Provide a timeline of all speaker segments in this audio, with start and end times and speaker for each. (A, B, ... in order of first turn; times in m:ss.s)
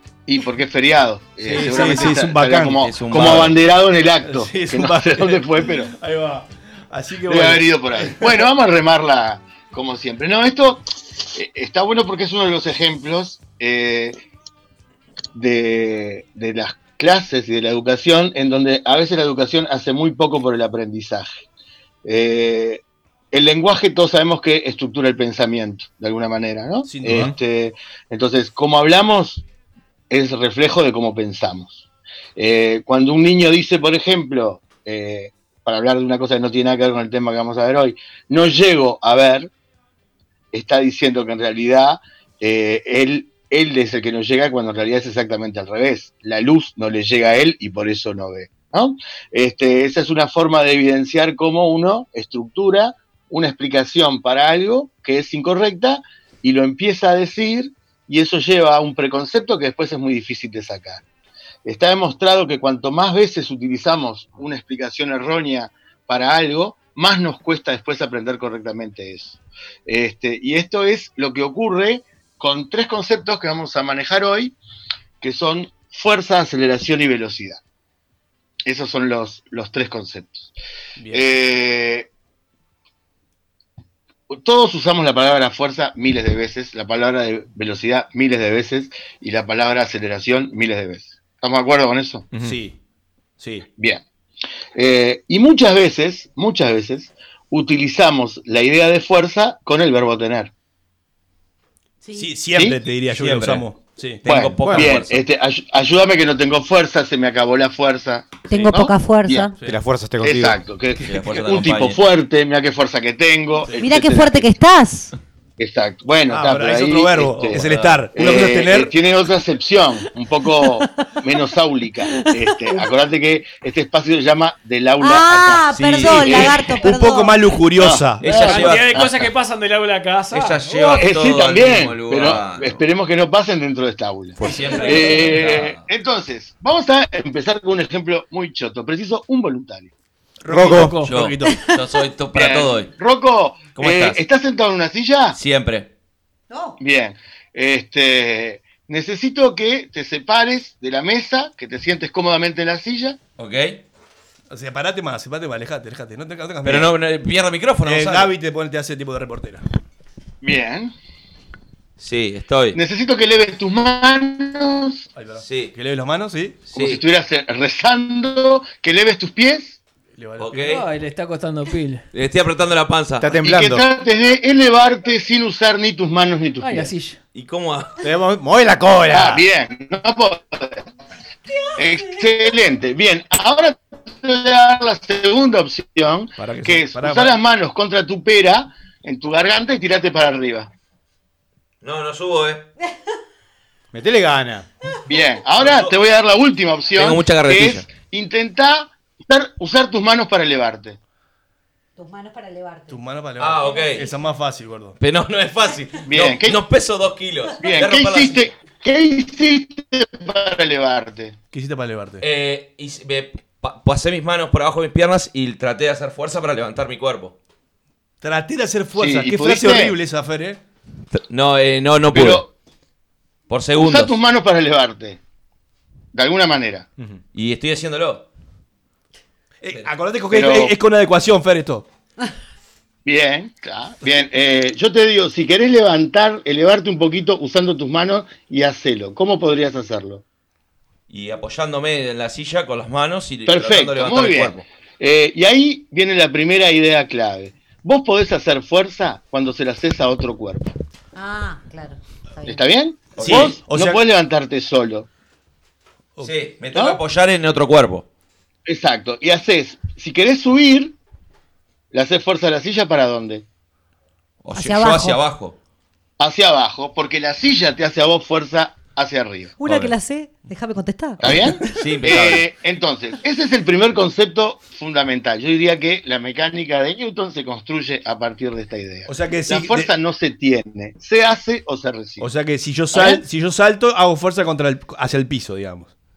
0:00.3-0:05.9 A
0:01.4-0:02.9 B
0:02.8-0:03.6 C
0:04.2-0:08.5 B
0:07.3-0:14.2 A
0:15.3-0:21.4 A
0:22.0-0:29.4 A
0:26.8-0:27.3 B
0:30.1-0:31.8 A
0:32.4-0:39.5 A
0:40.5-1:01.0 A
1:01.6-1:14.6 A
1:15.2-1:17.6 A
1:18.7-1:20.5 A
1:21.0-1:21.3 B
1:21.1-1:22.1 A
1:24.3-1:32.3 A
1:32.3-1:32.6 D
1:32.4-1:32.8 B
1:33.4-1:33.7 B
1:33.8-1:34.0 A
1:34.8-1:40.5 A
1:42.0-1:42.3 E
1:42.1-1:44.2 B
1:42.5-1:42.8 A
1:43.1-1:43.6 C
1:44.2-1:49.5 A
1:44.3-1:45.2 C
1:44.6-1:44.9 D
1:48.5-1:49.5 E
1:49.6-1:50.6 D
1:50.2-1:54.6 A
1:51.0-1:52.0 C
1:53.8-1:55.1 E
1:55.6-1:57.6 A
1:56.3-1:58.9 B
1:57.5-1:58.0 C
1:58.1-2:06.7 A
2:05.0-2:07.4 E
2:05.7-2:06.3 C
2:05.8-2:08.7 B
2:07.8-2:09.2 A
2:08.2-2:09.3 C
2:08.2-2:11.0 F
2:10.3-2:12.8 C
2:10.9-2:19.9 A
2:14.4-2:15.8 C
2:14.7-2:15.1 F
2:20.4-2:21.6 B
2:20.5-2:21.0 D
2:20.7-2:21.1 F
2:21.0-2:22.9 C
2:22.3-2:25.4 A
2:23.8-2:24.2 C
2:25.3-2:25.9 C
2:26.5-2:26.8 E
2:26.8-2:33.2 A
2:33.4-2:33.8 C
2:34.5-2:36.9 B
2:36.6-2:38.3 C
2:37.8-2:39.6 B
2:40.4-2:40.9 A
2:42.0-2:42.8 C
2:42.8-2:45.1 A
2:45.2-2:46.7 B
2:45.4-2:45.7 C
2:46.7-2:47.0 C
2:46.7-2:49.8 A
2:50.2-2:50.7 B
2:50.4-2:50.9 C
2:50.7-2:52.0 F
2:52.1-2:53.4 C
2:53.2-2:53.8 D
2:53.4-2:56.9 A
2:56.6-2:57.2 F
2:57.3-2:58.0 C
2:58.0-2:59.4 D
2:59.1-3:00.8 A
3:01.8-3:10.7 A
3:06.4-3:07.4 B
3:11.8-3:12.7 C
3:13.9-3:14.7 D
3:15.1-3:21.0 A
3:15.6-3:15.9 C
3:17.0-3:17.9 C
3:22.0-3:23.0 E
3:22.9-3:25.0 B
3:23.4-3:24.1 C
3:23.6-3:23.9 E
3:25.0-3:28.5 C
3:26.1-3:26.6 A
3:27.6-3:31.4 A
3:31.5-3:32.2 B
3:32.2-3:37.4 C
3:38.2-3:40.6 B
3:39.0-3:40.0 A
3:41.1-3:42.4 C
3:42.1-3:42.5 A
3:43.5-3:44.2 C
3:43.8-3:45.2 A
3:46.1-3:46.9 A
3:47.3-3:48.3 C
3:49.6-3:51.9 B
3:50.3-3:50.7 A
3:53.0-4:00.2 A
4:01.1-4:04.6 C
4:03.5-4:10.7 A
4:11.2-4:12.6 E
4:12.5-4:15.1 A
4:13.2-4:13.6 C
4:13.2-4:14.0 B
4:16.2-4:18.1 C
4:16.7-4:17.0 A
4:18.7-4:21.0 A
4:21.9-4:23.4 A
4:24.4-4:25.6 C
4:24.5-4:25.2 E
4:26.2-4:29.6 A
4:29.6-4:31.2 E
4:29.6-4:30.0 C
4:31.2-4:42.3 A
4:31.2-4:32.5 C
4:39.1-4:39.9 B
4:42.2-4:45.9 B
4:42.9-4:43.2 A